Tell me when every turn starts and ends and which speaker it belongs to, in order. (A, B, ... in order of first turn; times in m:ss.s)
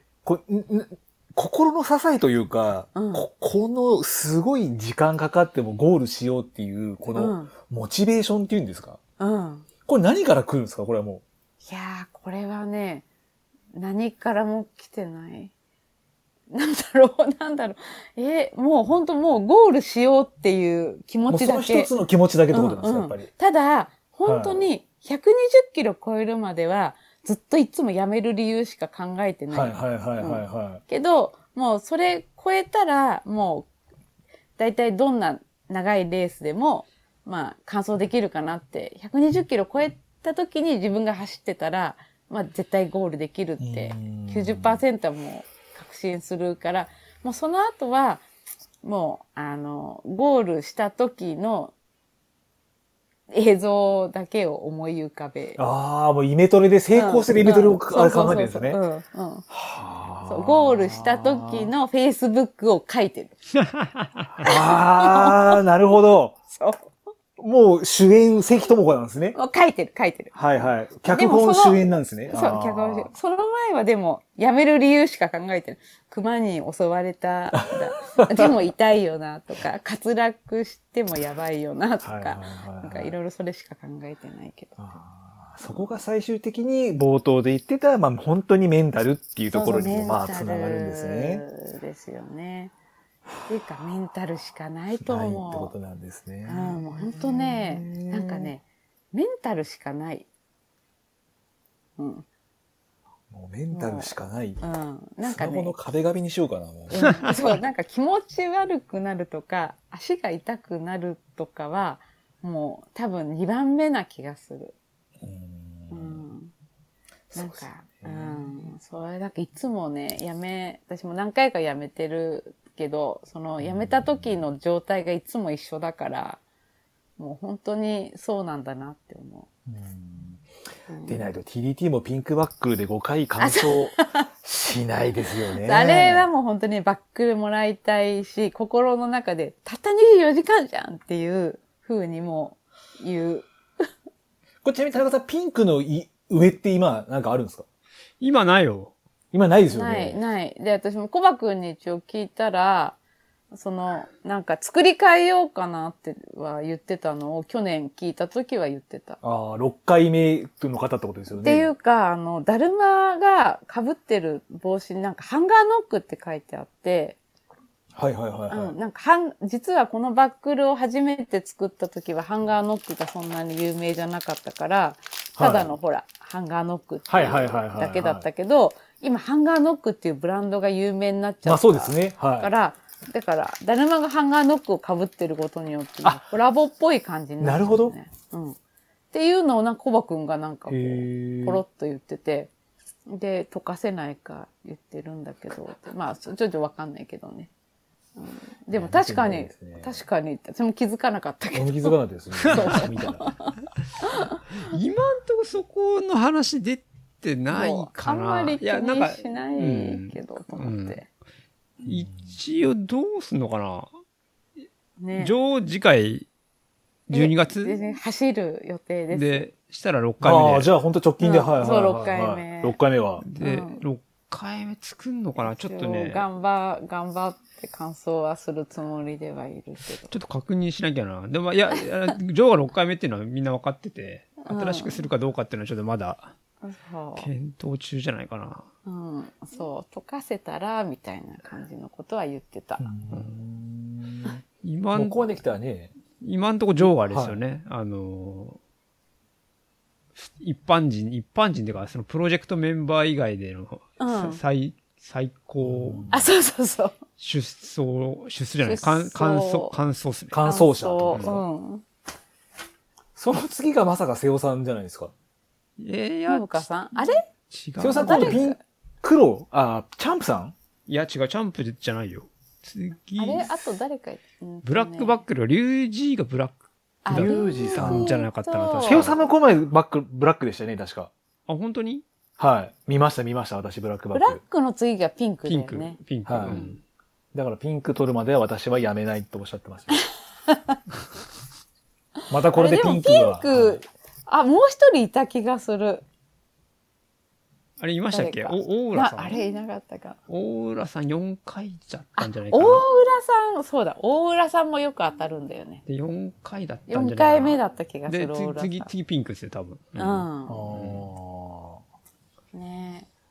0:00.2-0:09.0 A
0:02.9-0:03.3 B
0:07.1-0:07.5 B
0:09.2-0:09.6 B
0:09.9-0:11.2 A
0:11.6-0:13.0 B
0:13.7-0:15.5 B
0:16.5-0:21.9 B
0:21.3-0:23.3 A
0:22.5-0:33.7 B
0:24.2-0:24.6 A
0:29.5-0:30.8 A
0:34.6-0:48.2 B
0:43.6-0:44.8 A
0:48.8-0:51.7 B
0:53.3-0:55.6 B
0:55.6-0:58.8 A
0:56.9-0:59.4 B
0:59.5-1:01.7 A
1:00.2-1:03.3 B
1:03.8-1:04.2 C
1:04.4-1:06.4 A
1:04.4-1:05.6 B
1:06.5-1:06.9 B
1:07.4-1:09.4 A
1:09.3-1:10.4 B
1:10.3-1:13.1 A
1:11.0-1:24.8 B
1:17.5-1:18.5 A
1:22.0-1:23.1 A
1:24.8-1:31.4 A
1:29.5-1:32.7 B
1:33.5-1:35.7 B
1:35.0-1:38.5 A
1:36.4-1:40.2 B
1:42.0-1:42.2 B
1:43.3-1:44.6 A
1:43.7-1:45.7 B
1:45.2-1:47.6 A
1:46.9-1:54.7 B
1:55.2-1:56.2 A
1:55.9-1:56.5 B
1:57.3-1:58.7 A
1:57.3-2:06.4 B
2:03.6-2:04.3 A
2:07.2-2:09.5 B
2:09.7-2:10.4 A
2:10.9-2:11.2 B
2:11.0-2:16.3 A
2:13.4-2:14.2 B
2:15.6-2:23.9 B
2:24.6-2:27.6 A
2:28.2-2:28.9 C
2:29.3-2:30.2 A
2:29.7-2:33.0 B
2:33.5-2:39.2 B
2:39.2-2:41.7 A
2:41.4-2:47.2 B
2:47.9-2:48.7 A
2:48.5-3:08.6 B
2:55.4-2:55.7 A
2:57.1-2:58.2 A
3:01.4-3:02.5 A
3:07.4-3:07.9 A
3:09.1-3:12.5 B
3:10.7-3:11.6 A
3:13.1-3:17.5 B
3:18.2-3:24.4 B
3:18.7-3:20.0 A
3:21.5-3:23.3 A
3:24.5-3:31.0 C
3:27.5-3:31.0 B
3:31.8-3:33.9 C
3:31.8-3:32.3 A
3:35.0-3:35.3 B
3:35.2-3:36.2 C
3:37.1-3:37.8 C
3:37.1-3:39.5 B
3:39.1-3:40.7 C
3:40.2-3:43.2 A
3:41.2-3:42.8 B
3:43.2-3:46.2 C
3:43.4-3:43.8 B
3:45.4-3:50.1 B
3:50.1-3:56.3 C
3:54.4-3:55.0 B
3:56.6-3:57.3 B
3:57.2-3:58.7 C
3:58.8-4:02.9 B
4:02.8-4:04.4 A
4:04.6-4:05.4 C
4:04.9-4:05.9 A
4:06.2-4:08.6 C
4:06.8-4:07.4 A
4:10.2-4:16.1 C
4:14.0-4:14.4 B
4:15.6-4:16.3 A
4:16.1-4:17.0 B
4:17.2-4:20.5 C
4:18.6-4:19.8 B
4:20.3-4:21.4 A
4:20.4-4:21.8 B
4:21.1-4:21.4 C
4:23.2-4:25.1 A
4:25.8-4:26.6 C
4:26.3-4:27.2 B
4:27.5-4:28.4 C
4:27.8-4:30.5 A
4:27.9-4:28.6 B
4:30.9-4:33.6 C
4:33.2-4:35.2 B
4:34.6-4:39.2 C
4:37.0-4:39.1 B
4:37.1-4:38.1 A
4:38.8-4:41.1 A
4:41.5-4:42.0 C
4:42.4-4:44.4 A
4:44.1-4:46.8 B
4:45.4-4:46.8 C
4:46.2-4:46.6 A
4:47.3-4:50.0 A
4:50.5-4:50.8 B
4:52.3-4:53.8 A
4:52.5-4:56.0 B
4:57.8-4:59.4 C
4:58.1-5:00.2 B
5:00.3-5:02.8 C
5:02.2-5:05.8 B
5:05.8-5:11.0 C
5:06.9-5:08.9 B
5:10.0-5:10.6 B
5:10.5-5:11.8 A
5:12.5-5:13.1 B